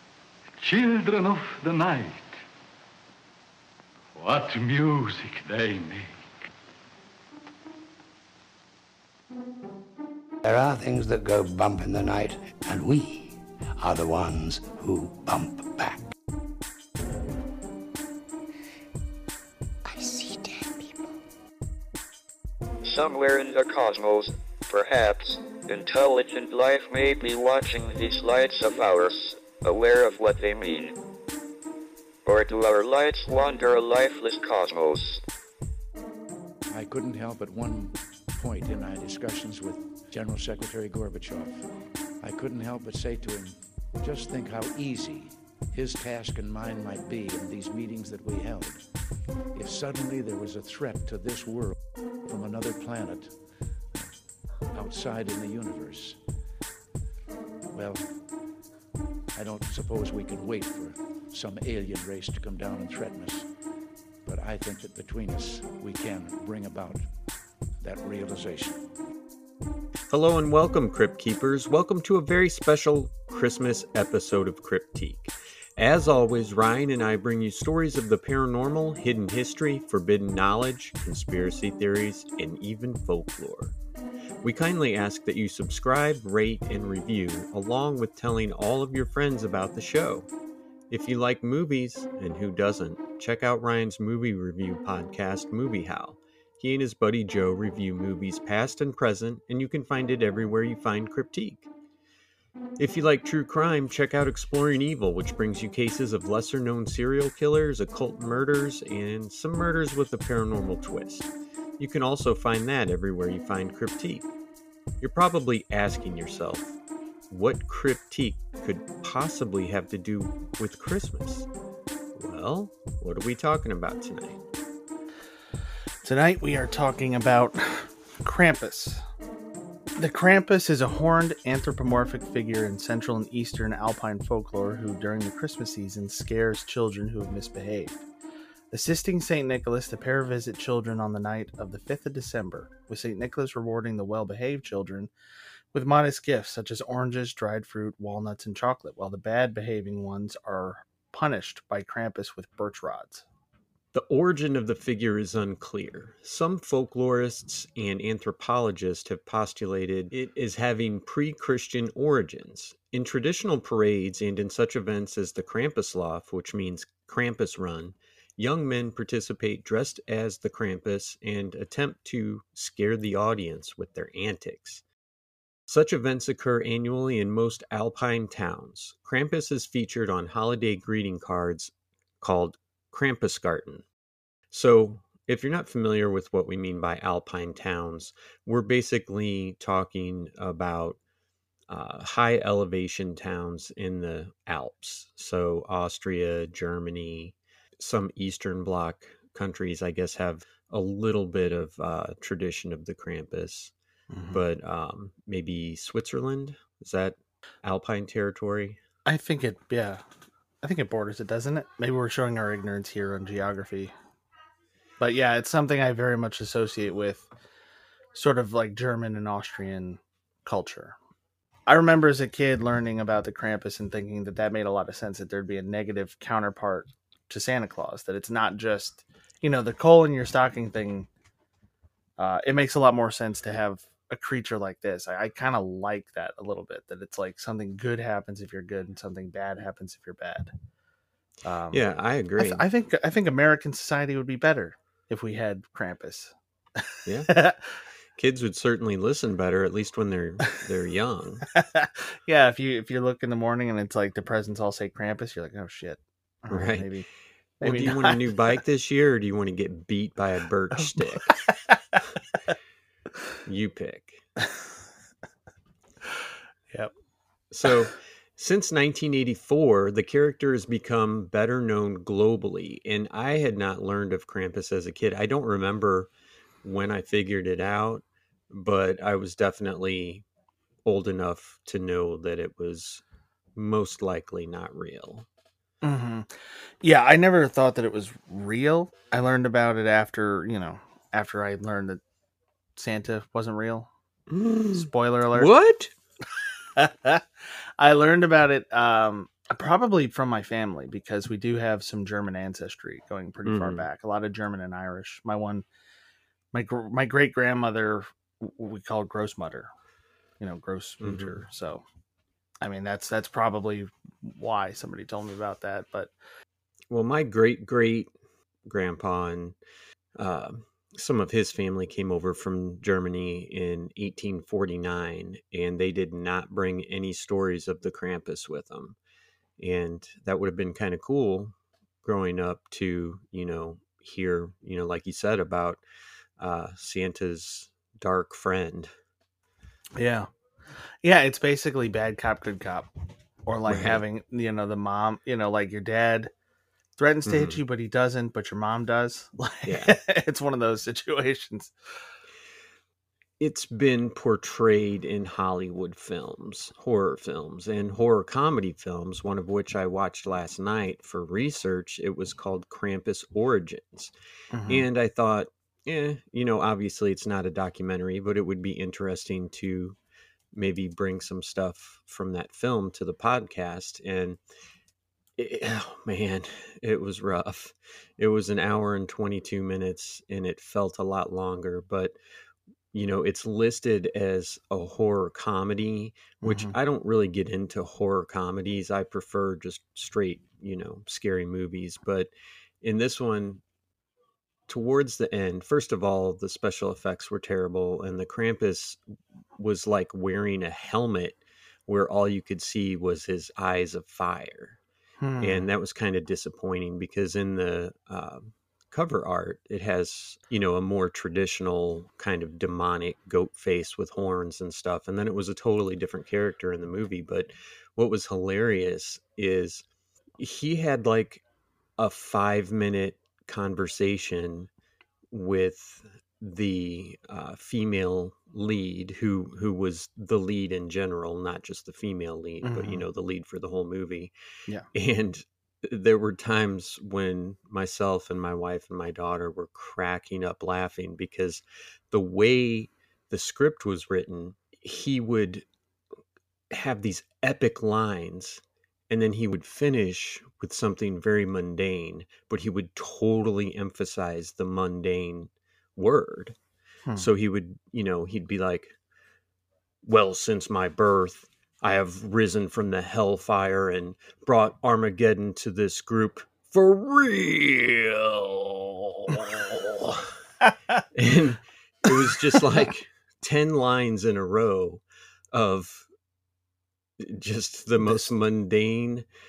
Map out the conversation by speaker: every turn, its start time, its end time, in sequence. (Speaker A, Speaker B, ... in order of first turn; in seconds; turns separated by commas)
Speaker A: 0.6-2.3, Speaker A: 4.2-6.1, Speaker B: 10.4-16.1, Speaker B: 19.9-20.9, Speaker C: 22.8-31.0, Speaker C: 32.2-35.2, Speaker D: 36.7-41.7, Speaker D: 42.2-48.8, Speaker D: 49.5-53.4, Speaker D: 54.7-56.2, Speaker D: 57.7-58.1, Speaker D: 59.3-63.5, Speaker D: 64.2-67.1, Speaker D: 67.8-68.8, Speaker E: 70.1-83.8, Speaker E: 84.4-90.3, Speaker E: 90.9-101.7, Speaker E: 102.8-114.3, Speaker E: 115.0-116.8, Speaker E: 117.3-121.5, Speaker E: 122.2-124.4, Speaker F: 126.0-129.0, Speaker F: 130.0-138.0, Speaker F: 138.7-145.1, Speaker F: 145.7-153.2, Speaker E: 153.9-174.8, Speaker E: 175.7-183.8, Speaker E: 184.5-191.0, Speaker E: 191.7-203.7, Speaker F: 204.1-204.4, Speaker E: 204.3-208.8, Speaker F: 209.1-210.0, Speaker F: 210.6-213.9, Speaker F: 215.0-217.3, Speaker F: 218.1-221.0, Speaker F: 221.7-231.1, Speaker F: 232.2-240.5, Speaker F: 241.4-241.8, Speaker E: 241.7-242.7, Speaker F: 242.4-247.6, Speaker E: 247.1-247.3, Speaker E: 248.2-251.5, Speaker F: 251.6-257.1, Speaker E: 256.5-256.9, Speaker F: 257.6-258.3, Speaker E: 257.6-261.3, Speaker F: 260.8-261.8, Speaker E: 263.4-264.2, Speaker F: 266.1-266.9, Speaker E: 267.5-276.1, Speaker E: 276.6-280.2, Speaker E: 280.9-283.0, Speaker E: 283.6-285.3, Speaker F: 285.8-292.0, Speaker F: 292.8-293.9, Speaker E: 294.3-295.9, Speaker F: 294.7-295.5, Speaker F: 296.8-297.2, Speaker F: 297.8-305.6, Speaker E: 303.4-303.9, Speaker F: 306.5-309.7, Speaker F: 310.4-311.8, Speaker E: 311.0-311.4, Speaker F: 312.6-316.1, Speaker E: 316.9-318.1, Speaker E: 318.6-319.6, Speaker E: 320.2-329.0, Speaker E: 329.6-335.8, Speaker E: 336.4-338.9, Speaker F: 340.0-340.3, Speaker F: 341.0-342.9, Speaker F: 343.5-346.3, Speaker E: 343.7-344.0, Speaker F: 347.0-351.7, Speaker E: 347.3-347.6, Speaker E: 349.6-350.0, Speaker E: 353.4-364.1, Speaker F: 364.5-364.9, Speaker E: 364.7-370.0, Speaker E: 370.5-374.4, Speaker E: 375.4-382.2, Speaker E: 382.9-392.3, Speaker F: 386.4-386.8, Speaker E: 392.8-393.6, Speaker E: 394.7-399.0, Speaker E: 399.6-404.8, Speaker F: 405.2-405.7, Speaker E: 405.4-419.9, Speaker E: 420.4-421.4, Speaker E: 422.0-424.7, Speaker E: 425.3-434.3, Speaker F: 432.6-433.0, Speaker E: 434.9-445.7, Speaker E: 446.7-456.6, Speaker E: 457.2-459.0, Speaker E: 460.0-470.3, Speaker E: 471.1-476.1, Speaker E: 477.2-479.3, Speaker F: 478.0-478.3